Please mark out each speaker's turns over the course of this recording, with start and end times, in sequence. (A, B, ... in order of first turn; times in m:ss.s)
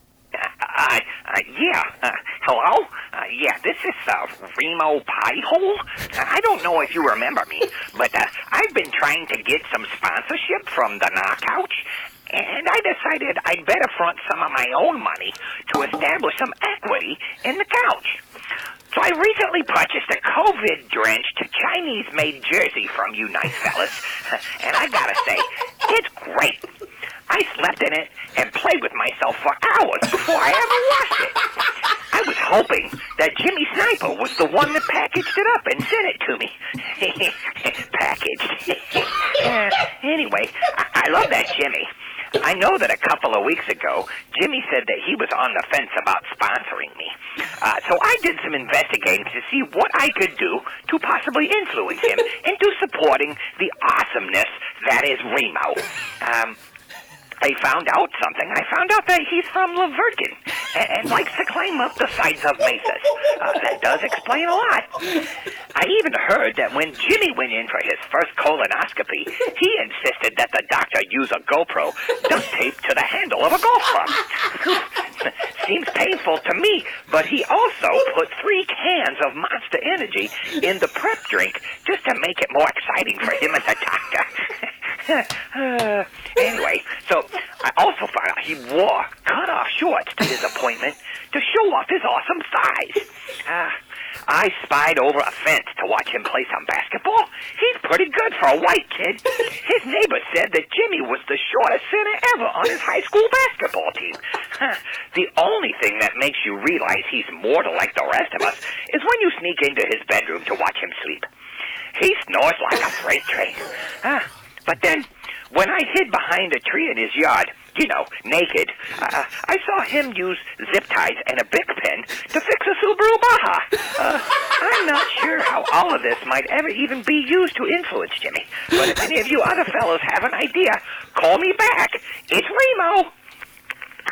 0:00.4-0:18.2 A
0:18.9-0:26.7 A
0:27.3-0:31.4 A
0:32.1-0:56.6 A
0:57.4-1:05.2 A
1:05.7-1:24.3 A
1:25.0-1:51.3 A
1:51.9-2:13.1 A